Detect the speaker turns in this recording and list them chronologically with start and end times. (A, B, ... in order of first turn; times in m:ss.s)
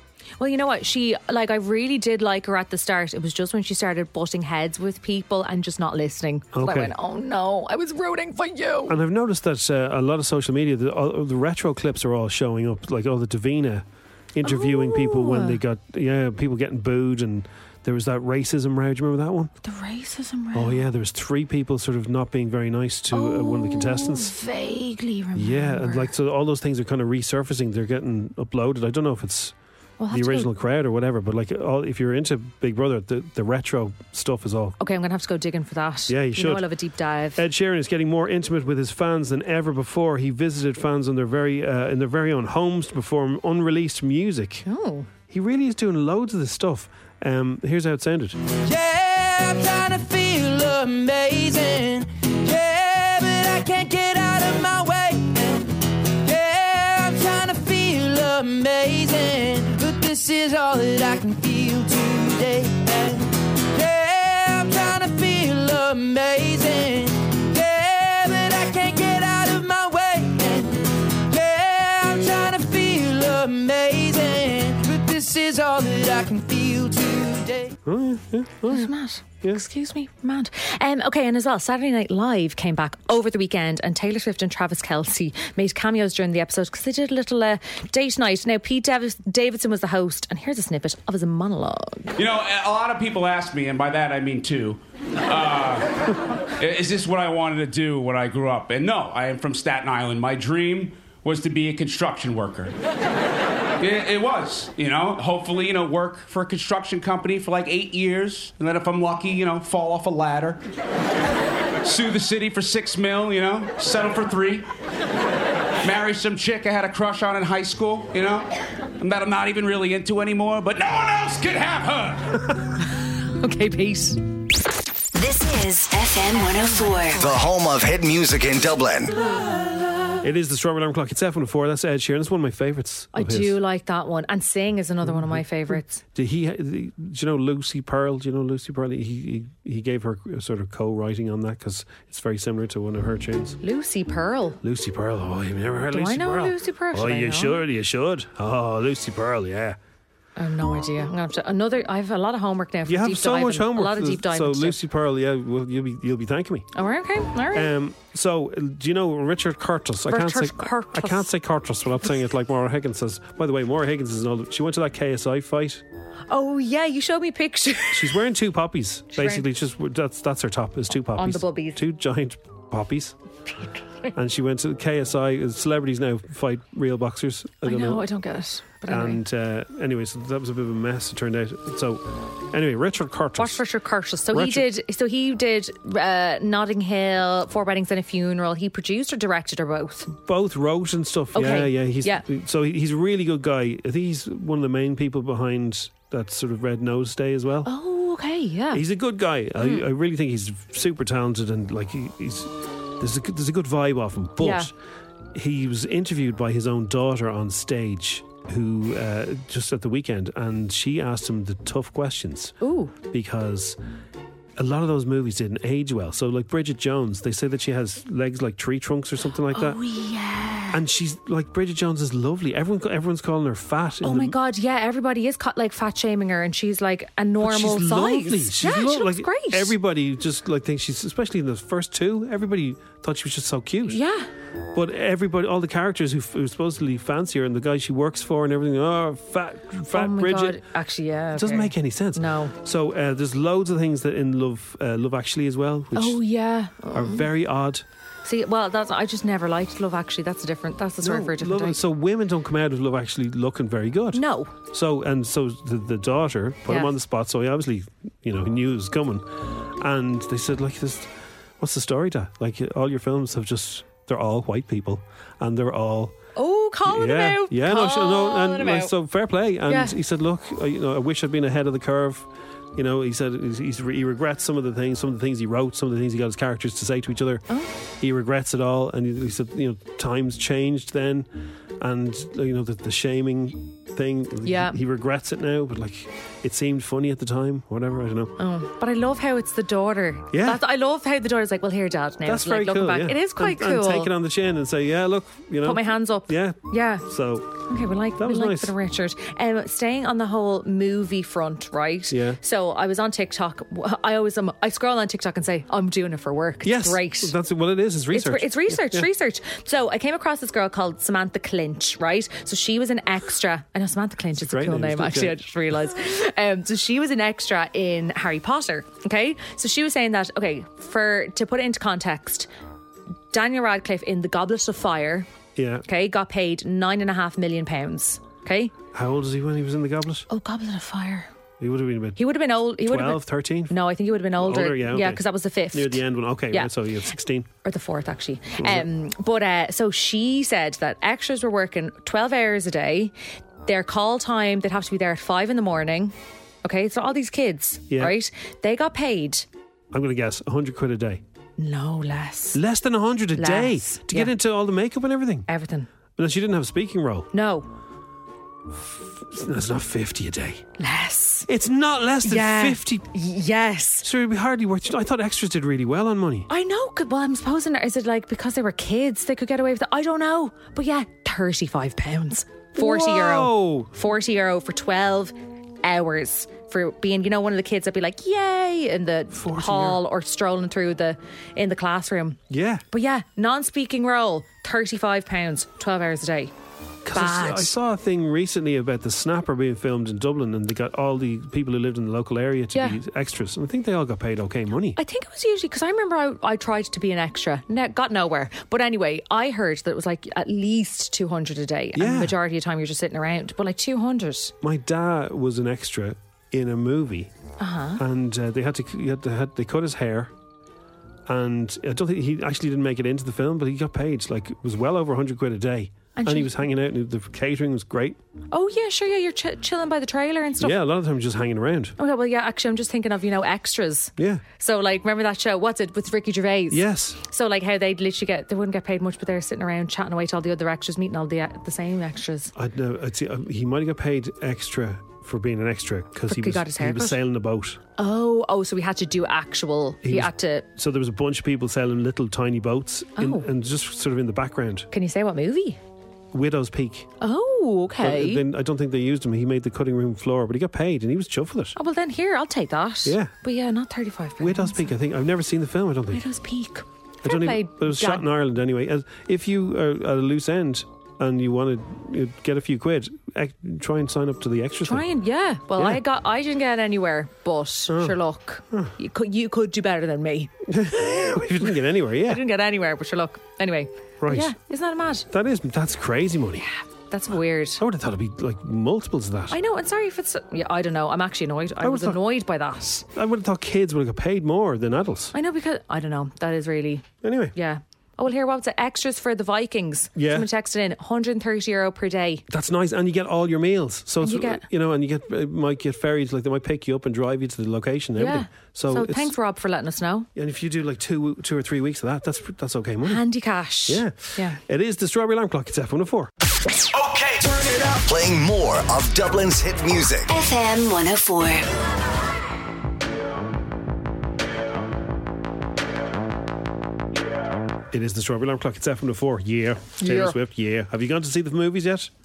0:00.4-0:09.0 A
0:06.5-0:06.9 B
0:08.9-0:19.5 B
0:14.4-0:15.6 A
0:19.6-0:20.8 A
0:20.5-0:24.4 B
0:23.1-0:26.1 A
0:25.4-0:29.5 B
0:30.0-0:30.5 A
0:30.1-0:34.8 B
0:34.8-0:37.4 A
0:36.1-0:36.6 B
0:37.4-0:44.6 B
0:44.6-0:45.1 A
0:45.3-0:48.4 B
0:48.6-1:17.7 C
1:17.8-1:18.9 B
1:18.7-1:32.1 A
1:32.2-1:42.8 D
1:43.8-1:50.6 D
1:51.8-1:54.7 D
1:55.8-2:02.4 D
2:03.4-2:04.2 A
2:05.1-2:07.3 E
2:07.2-2:09.2 F
2:09.3-2:09.8 A
2:10.2-2:13.6 B
2:13.1-2:16.0 A
2:15.1-2:15.4 B
2:16.1-2:23.6 B
2:23.6-2:24.6 A
2:24.6-2:29.8 B
2:25.9-2:27.6 A
2:30.4-2:34.8 A
2:32.9-2:36.7 B
2:36.7-2:37.7 A
2:37.5-2:45.8 B
2:40.1-2:41.3 A
2:46.3-2:48.2 A
2:47.9-2:53.2 B
2:49.2-2:49.4 A
2:51.1-2:51.8 A
2:54.1-2:58.1 B
2:57.6-2:59.2 A
2:58.9-3:03.6 B
3:03.4-3:10.1 A
3:04.3-3:04.7 B
3:10.2-3:17.7 B
3:11.3-3:12.2 A
3:17.6-3:18.8 A
3:18.7-3:24.7 B
3:19.6-3:19.9 A
3:24.4-3:24.7 A
3:25.4-3:32.6 B
3:32.6-3:32.9 A
3:33.1-3:33.8 B
3:34.6-3:39.8 B
3:39.5-3:40.8 A
3:40.7-3:44.4 B
3:44.0-3:49.7 A
3:47.4-3:54.0 B
3:53.9-3:54.3 A
3:54.7-4:00.6 B
3:59.9-4:02.6 A
4:01.4-4:06.2 B
4:05.9-4:07.3 A
4:06.9-4:07.8 B
4:08.2-4:11.8 A
4:11.0-4:21.1 B
4:14.1-4:14.5 A
4:21.6-4:26.2 B
4:26.4-4:28.9 A
4:26.9-4:37.5 B
4:29.7-4:29.9 A
4:38.0-4:41.3 B
4:41.8-4:48.4 B
4:44.4-4:44.8 A
4:48.4-4:54.1 A
4:50.3-4:50.6 B
4:52.2-4:57.6 B
4:55.6-4:57.1 A
4:57.7-5:07.3 A
4:58.2-4:58.7 B
5:02.1-5:02.4 B
5:06.6-5:09.1 B
5:08.1-5:22.5 A
5:14.4-5:15.5 B
5:23.3-5:25.3 A
5:25.6-5:25.8 B
5:25.8-5:28.7 A
5:28.9-5:30.3 B
5:30.3-5:31.3 A
5:31.6-5:32.2 B
5:32.2-5:36.7 A
5:32.8-5:33.8 B
5:34.4-5:37.5 B
5:37.6-5:43.1 A
5:38.6-5:38.9 B
5:43.6-5:49.5 A
5:49.9-5:51.2 B
5:51.6-5:52.6 A
5:52.5-5:55.5 B
5:53.4-5:54.3 A
5:55.5-5:55.9 A
5:56.2-5:57.3 B
5:57.3-5:57.7 A
5:58.8-6:00.6 B
6:00.8-6:01.5 A
6:01.5-6:03.1 B
6:02.2-6:04.1 A
6:04.0-6:06.5 B
6:06.5-6:22.4 A
6:12.8-6:13.9 B
6:19.4-6:20.0 B
6:22.5-6:22.8 B
6:22.9-6:26.5 A
6:27.0-6:35.0 B
6:27.1-6:27.7 A
6:32.7-6:33.0 A
6:35.0-6:44.5 A
6:41.9-6:42.4 B
6:44.6-6:47.3 B
6:47.6-6:48.0 A
6:48.0-6:50.3 B
6:51.3-6:58.2 B
6:56.2-6:56.5 A
6:58.5-7:00.8 A
7:00.6-7:02.0 B
7:02.0-7:12.5 A
7:04.2-7:04.4 B
7:06.7-7:07.2 B
7:12.6-7:17.8 B
7:16.3-7:17.2 A
7:18.0-7:20.6 A
7:20.0-7:24.9 B
7:23.2-7:23.4 A
7:24.9-7:25.8 A
7:26.3-7:27.1 B
7:27.2-7:28.4 A
7:28.0-7:31.8 B
7:31.8-7:34.9 A
7:33.0-7:33.3 B
7:34.4-7:36.2 B
7:36.1-7:38.3 A
7:37.2-7:45.1 B
7:44.8-7:55.3 A
7:45.8-7:46.0 B
7:47.9-7:48.2 B
7:50.7-7:52.4 B
7:54.2-7:54.6 B
7:55.3-7:56.6 B
7:56.6-7:57.8 A
7:57.8-7:59.6 B
7:59.5-8:03.0 A
8:01.8-8:02.2 B
8:03.1-8:05.3 B
8:05.3-8:12.4 A
8:07.2-8:07.6 B
8:10.2-8:10.5 B
8:12.5-8:19.3 B
8:14.2-8:14.6 A
8:18.2-8:20.3 A
8:20.4-8:23.2 B
8:23.0-8:24.6 A
8:23.9-8:26.3 B
8:26.9-8:30.3 F
8:30.3-8:31.6 E
8:37.9-8:42.1 B
8:40.0-8:40.4 A